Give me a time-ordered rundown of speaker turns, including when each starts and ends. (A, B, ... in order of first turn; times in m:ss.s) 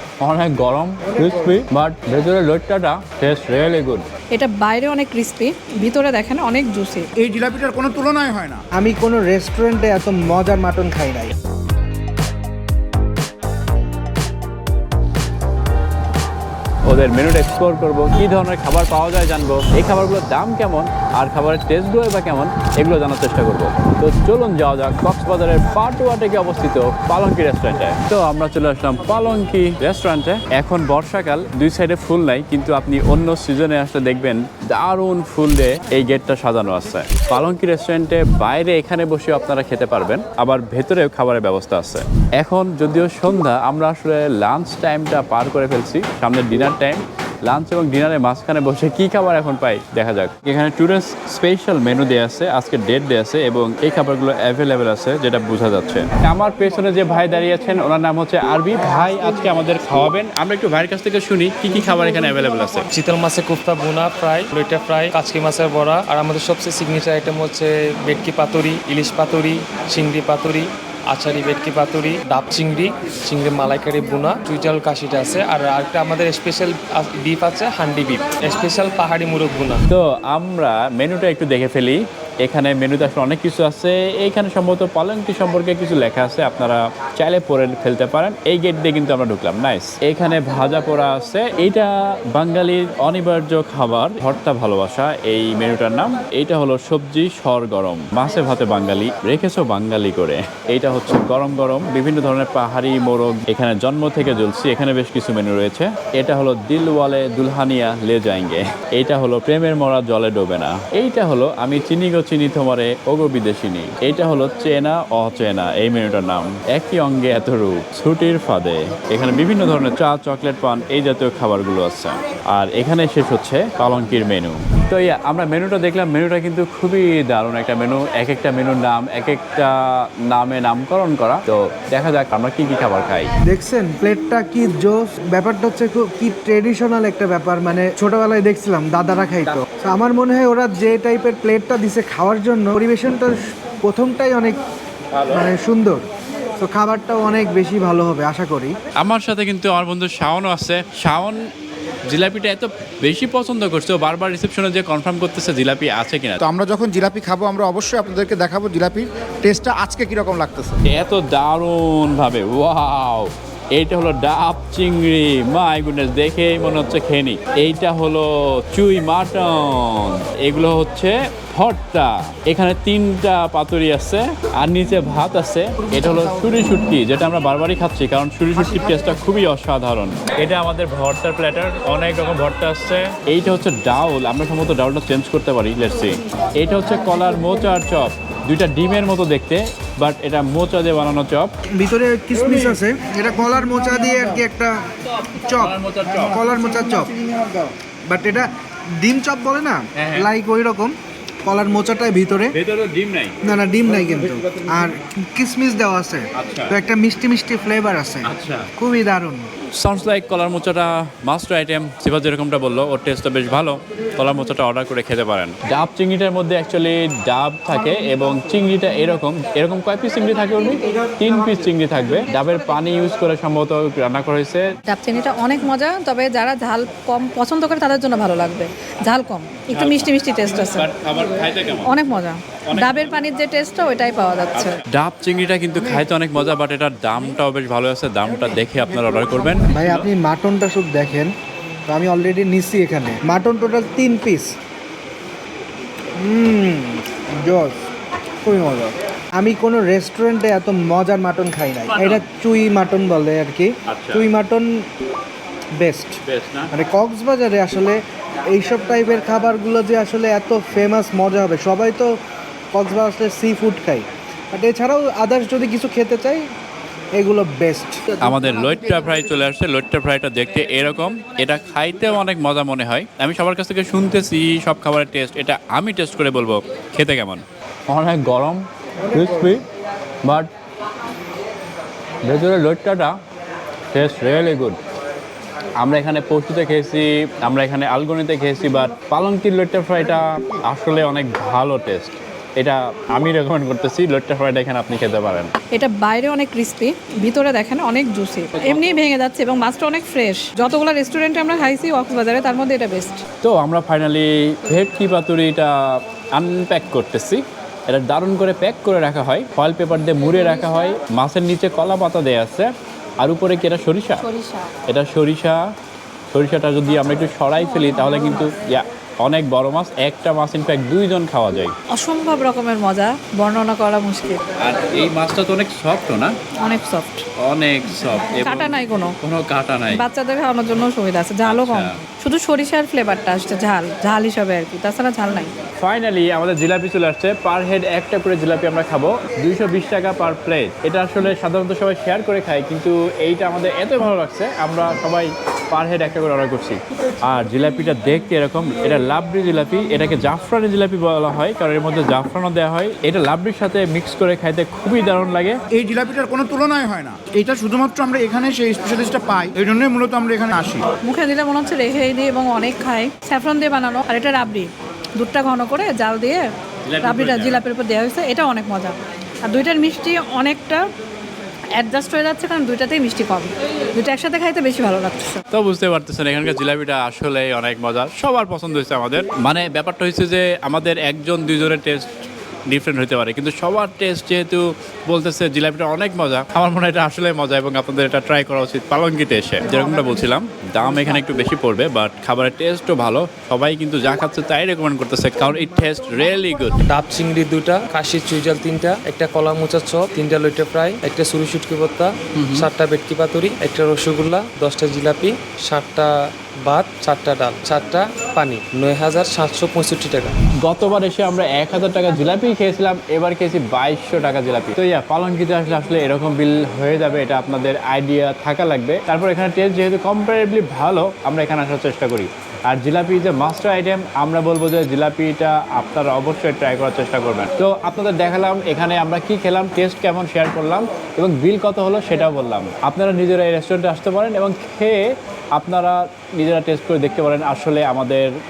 0:00.2-0:04.1 A
0:04.3-0:07.1 B
0:07.2-0:08.6 C
0:08.7-0:11.3 D
0:16.8-1:02.9 A
1:02.9-1:19.8 E
1:19.9-2:13.3 A
2:13.4-2:24.6 D
2:25.1-2:25.4 A
2:25.3-2:26.0 D
2:26.6-2:28.8 D
2:29.0-2:31.4 A
2:32.0-2:36.4 A
2:36.4-2:40.8 C
2:40.9-3:11.5 A
3:11.7-3:17.2 D
3:15.5-3:16.4 A
3:18.0-3:22.5 D
3:19.9-3:20.3 A
3:22.5-3:23.4 A
3:23.4-3:29.5 D
3:26.4-3:26.7 A
3:28.2-3:28.7 A
3:29.7-3:44.7 A
3:44.9-3:50.9 B
3:49.7-3:50.1 A
3:50.7-3:52.0 A
3:51.8-3:54.8 B
3:52.7-3:53.2 A
3:54.5-4:00.0 A
3:59.7-4:01.3 D
4:01.9-4:04.5 D
4:06.2-4:07.9 D
4:08.4-4:14.9 D
4:11.9-4:12.2 A
4:13.9-4:14.3 A
4:15.8-4:16.2 D
4:16.2-4:16.7 A
4:16.7-4:22.1 D
4:22.7-4:26.5 D
4:27.2-4:28.4 D
4:28.2-4:39.6 A
4:40.2-4:40.5 A
4:42.2-4:43.2 A
4:43.9-4:44.8 A
4:45.8-4:55.5 A
4:55.7-5:03.2 B
5:03.4-5:14.2 A
5:14.2-5:14.7 B
5:14.9-5:15.6 A
5:16.3-5:21.8 A
5:21.9-5:24.4 B
5:24.6-5:26.4 A
5:26.6-5:27.2 B
5:27.4-5:30.0 A
5:28.3-5:29.2 B
5:29.9-5:35.5 B
5:31.4-5:32.0 A
5:35.8-5:55.6 A
5:55.7-6:00.8 C
6:01.0-6:06.5 B
6:06.8-6:07.6 A
6:07.0-6:10.9 B
6:11.8-6:15.4 B
6:15.5-6:22.1 A
6:22.7-6:36.8 A
6:36.8-6:50.4 E
6:42.3-6:42.7 A
6:50.6-7:18.3 A